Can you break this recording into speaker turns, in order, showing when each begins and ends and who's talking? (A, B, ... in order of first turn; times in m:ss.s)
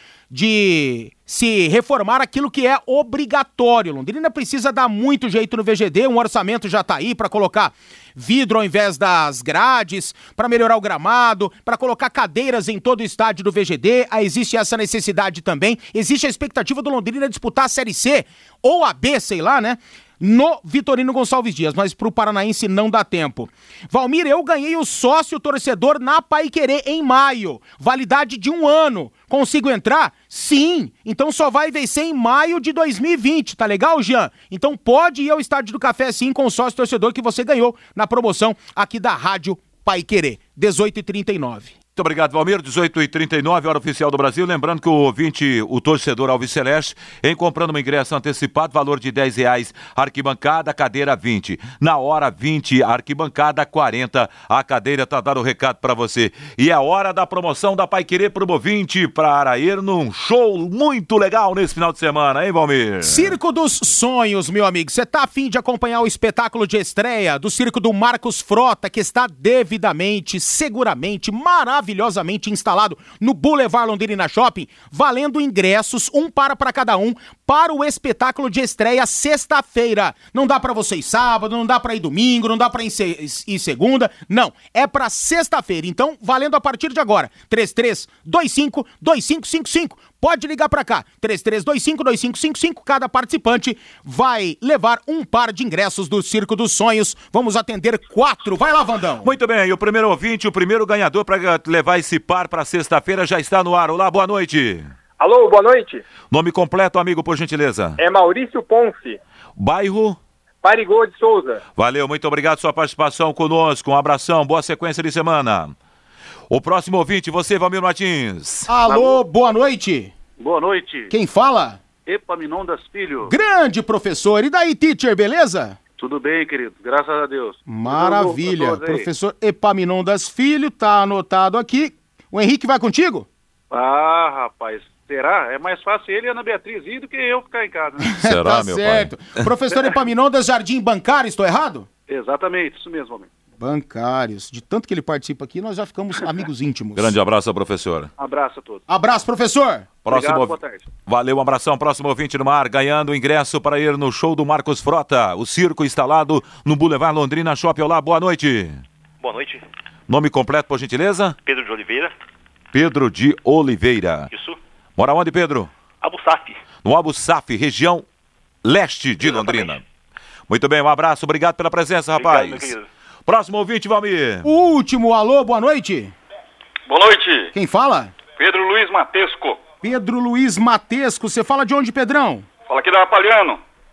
0:00.3-0:41.7 A
0:42.0-1:03.4 B
1:03.0-1:39.3 A
1:39.2-1:44.9 B
1:45.2-1:46.0 C
1:46.3-1:48.0 B
1:48.0-1:49.2 C
1:49.6-1:50.2 B
1:50.6-1:51.6 C
1:51.8-1:55.7 B
1:56.5-1:58.7 B
1:58.7-2:00.1 A
1:58.8-1:59.2 D
2:00.4-2:01.1 D
2:01.1-2:01.8 A
2:02.0-2:03.3 D
2:03.2-2:05.8 A
2:06.0-2:09.1 D
2:07.6-2:13.3 A
2:13.7-2:18.1 D
2:18.1-2:21.9 A
2:18.2-2:19.2 B
2:22.1-2:23.3 D
2:23.6-2:27.1 A
2:26.9-2:28.1 B
2:28.2-2:28.8 D
2:28.9-2:30.0 A
2:30.0-2:38.8 B
2:30.1-2:30.8 D
2:39.2-2:39.6 E
2:40.1-2:41.4 B
2:41.4-2:42.1 E
2:42.7-2:44.3 B
2:44.3-2:44.6 E
2:45.0-2:45.7 B
2:46.0-2:46.6 E
2:46.8-2:48.0 B
2:48.6-2:49.8 B
2:49.2-2:49.8 E
2:50.5-2:52.7 B
2:52.1-2:52.8 E
2:53.3-2:54.5 B
2:54.4-2:56.1 A
2:56.9-2:57.5 F
2:57.5-2:58.1 A
2:58.4-2:59.6 F
2:59.8-3:02.5 A
3:02.7-3:03.6 F